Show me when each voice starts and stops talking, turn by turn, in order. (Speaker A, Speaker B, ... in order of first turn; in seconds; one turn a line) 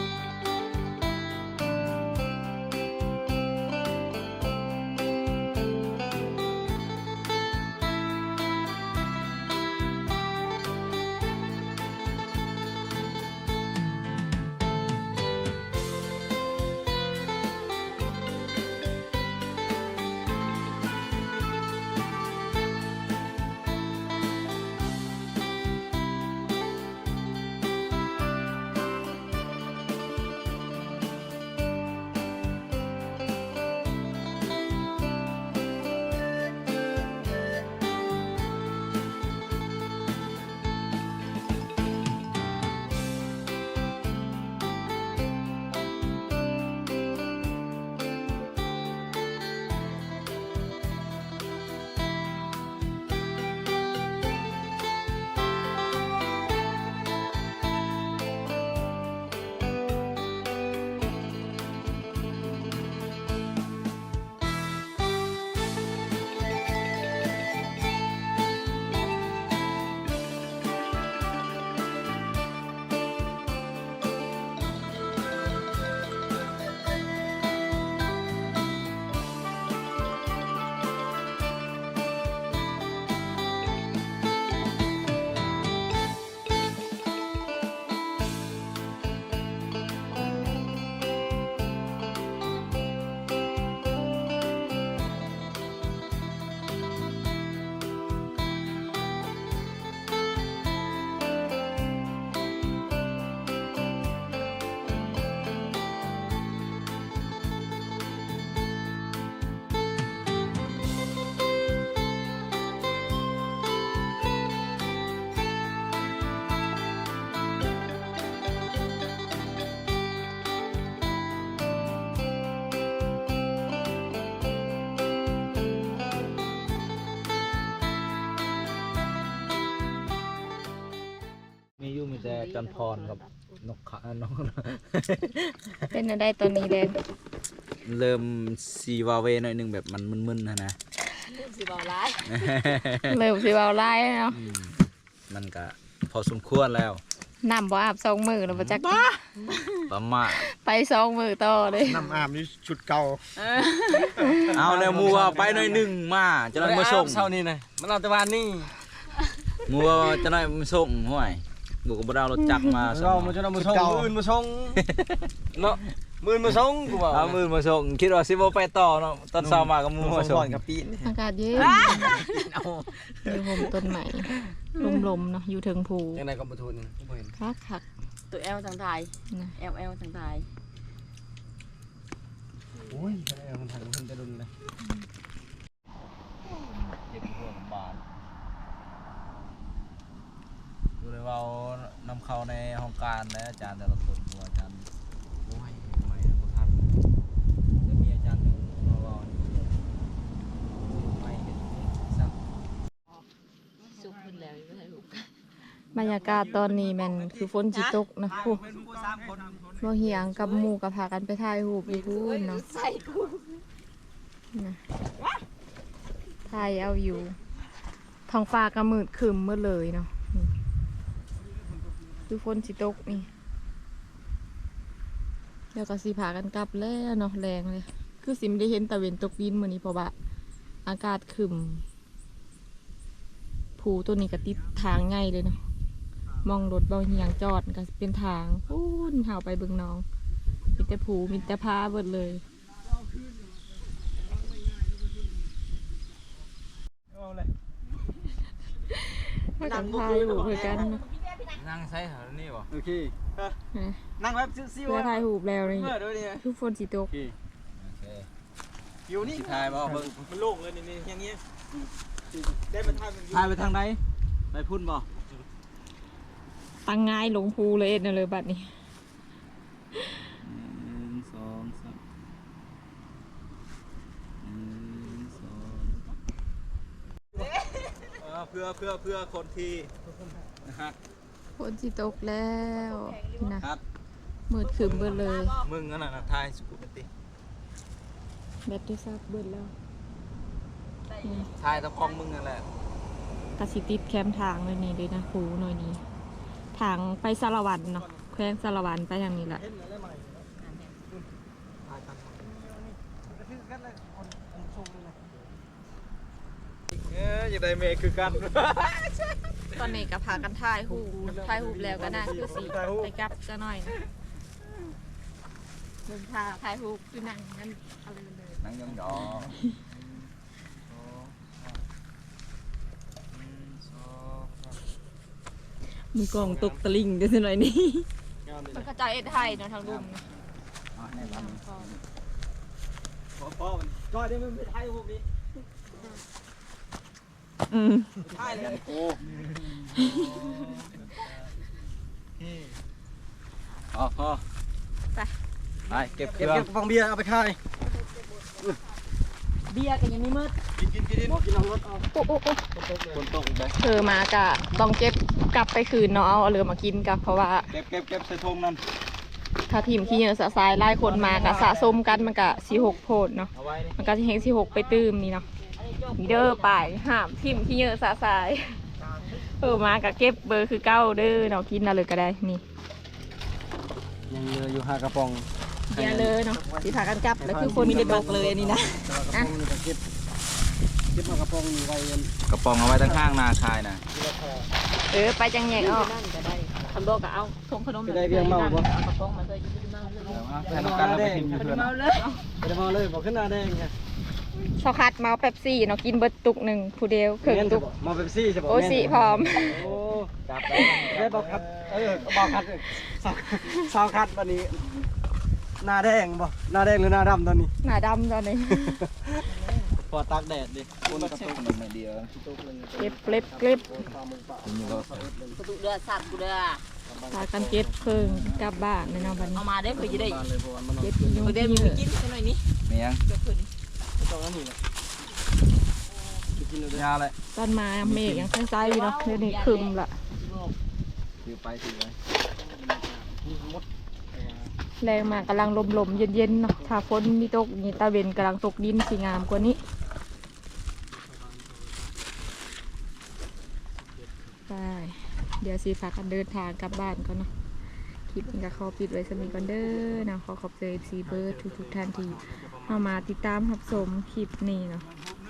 Speaker A: 131.8-135.9
Speaker B: 132.2-133.5
Speaker C: 135.9-137.0
Speaker A: 137.8-140.8
Speaker B: 141.2-142.4
Speaker A: 142.2-143.2
Speaker C: 143.1-144.4
Speaker A: 144.3-144.8
Speaker A: 145.3-147.0
Speaker C: 147.4-149.2
Speaker A: 148.5-148.9
Speaker A: 149.9-150.5
Speaker C: 150.3-152.2
Speaker B: 153.4-154.4
Speaker D: 154.4-155.9
Speaker A: 154.5-157.3
Speaker D: 156.6-158.7
Speaker A: 159.7-163.4
Speaker D: 162.9-164.8
Speaker A: 164.8-165.3
Speaker D: 165.6-167.4
Speaker A: 167.0-170.6
Speaker D: 169.4-171.1
Speaker C: 171.0-172.1
Speaker B: 171.6-172.6
Speaker A: 172.3-173.0
Speaker C: 173.2-176.2
Speaker D: 176.2-177.3
Speaker C: 177.4-177.8
Speaker B: 178.3-180.5
Speaker D: 182.9-184.5
Speaker A: 187.1-188.0
Speaker A: 191.0-194.9
Speaker A: 195.4-196.8
Speaker A: 197.8-199.8
Speaker A: 200.8-202.4
Speaker B: 203.9-205.3
Speaker C: 205.9-208.6
Speaker B: 207.7-208.0
Speaker A: 208.4-210.1
Speaker C: 209.8-212.7
Speaker B: 211.9-213.6
Speaker C: 214.5-214.8
Speaker C: 216.5-217.4
Speaker C: 218.3-220.5
Speaker C: 222.3-223.3
Speaker C: 225.7-230.1
Speaker C: 230.8-231.8
Speaker C: 233.8-235.6
Speaker C: 236.4-240.1
Speaker C: 240.8-242.4
Speaker C: 248.9-251.0
Speaker D: 249.6-250.8
Speaker B: 250.5-251.5
Speaker A: 251.5-252.7
Speaker D: 252.7-253.5
Speaker C: 253.7-254.0
Speaker D: 254.2-255.2
Speaker C: 254.8-257.1
Speaker A: 255.8-256.3
Speaker A: 257.8-258.3
Speaker D: 259.1-260.5
Speaker A: 259.2-261.4
Speaker D: 262.3-263.3
Speaker A: 262.8-264.0
Speaker A: 264.5-265.1
Speaker C: 266.9-268.7
Speaker A: 270.4-272.0
Speaker A: 274.4-276.0
Speaker B: 277.4-278.1
Speaker A: 278.2-279.9
Speaker D: 280.1-280.4
Speaker A: 280.6-281.0
Speaker C: 281.6-283.7
Speaker B: 282.9-283.6
Speaker C: 284.5-285.6
Speaker B: 284.6-286.1
Speaker A: 284.8-287.1
Speaker C: 288.7-289.7
Speaker B: 291.1-292.2
Speaker A: 291.6-292.7
Speaker C: 293.6-296.0
Speaker C: 296.8-299.6
Speaker D: 299.4-300.5
Speaker B: 300.6-301.0
Speaker D: 302.4-305.5
Speaker A: 307.1-310.0
Speaker C: 309.8-314.0
Speaker D: 310.8-313.1
Speaker C: 316.1-318.7
Speaker A: 318.6-319.6
Speaker A: 320.9-321.5
Speaker A: 323.3-324.4
Speaker B: 326.2-327.1
Speaker D: 326.2-326.9
Speaker C: 327.2-328.1
Speaker D: 328.4-328.9
Speaker C: 328.7-330.2
Speaker A: 329.7-330.2
Speaker A: 330.9-332.0
Speaker C: 331.1-331.9
Speaker D: 333.4-335.2
Speaker B: 337.7-338.1
Speaker D: 338.2-341.3
Speaker A: 338.3-339.2
Speaker B: 339.9-340.3
Speaker D: 342.4-342.7
Speaker A: 343.9-344.4
Speaker A: 345.9-346.7
Speaker D: 346.3-347.6
Speaker B: 349.7-350.6
Speaker A: 350.8-351.3
Speaker D: 351.1-352.1
Speaker C: 352.1-352.6
Speaker D: 352.8-353.2
Speaker A: 353.1-353.8
Speaker C: 353.8-357.7
Speaker A: 357.7-358.8
Speaker C: 359.7-365.5
Speaker A: 361.0-362.1
Speaker A: 363.5-364.0
Speaker B: 364.7-365.0
Speaker B: 365.8-366.9
Speaker C: 366.2-368.8
Speaker C: 369.4-372.6
Speaker D: 374.3-380.0
Speaker C: 375.9-378.3
Speaker B: 377.7-379.1
Speaker D: 381.1-382.3
Speaker A: 382.5-384.0
Speaker D: 383.0-383.4
Speaker D: 384.1-384.7
Speaker C: 385.1-386.1
Speaker B: 385.7-390.4
Speaker D: 388.1-388.9
Speaker D: 390.2-391.8
Speaker A: 390.3-391.9
Speaker B: 391.5-392.4
Speaker D: 392.6-393.9
Speaker C: 394.6-397.9
Speaker D: 397.4-400.3
Speaker C: 398.7-399.8
Speaker A: 398.8-402.4
Speaker D: 401.1-404.9
Speaker D: 405.8-407.7
Speaker C: 407.8-409.0
Speaker D: 408.8-411.7
Speaker A: 411.0-412.3
Speaker D: 412.3-415.6
Speaker C: 413.0-414.1
Speaker A: 414.6-415.3
Speaker B: 415.5-416.9
Speaker D: 417.1-418.0
Speaker C: 417.3-419.7
Speaker A: 418.0-418.7
Speaker D: 419.0-422.0
Speaker B: 419.5-420.5
Speaker C: 421.0-422.1
Speaker B: 421.4-423.7
Speaker A: 422.9-423.2
Speaker D: 424.2-424.8
Speaker D: 426.5-427.1
Speaker A: 426.9-427.4
Speaker C: 427.5-430.2
Speaker A: 428.0-428.5
Speaker B: 428.8-430.8
Speaker A: 431.4-432.2
Speaker D: 432.6-434.7
Speaker C: 435.0-439.8
Speaker D: 435.9-437.0
Speaker D: 441.1-442.1
Speaker D: 444.0-444.6
Speaker C: 444.7-447.5
Speaker C: 448.3-455.1
Speaker D: 448.5-450.3
Speaker D: 451.2-453.2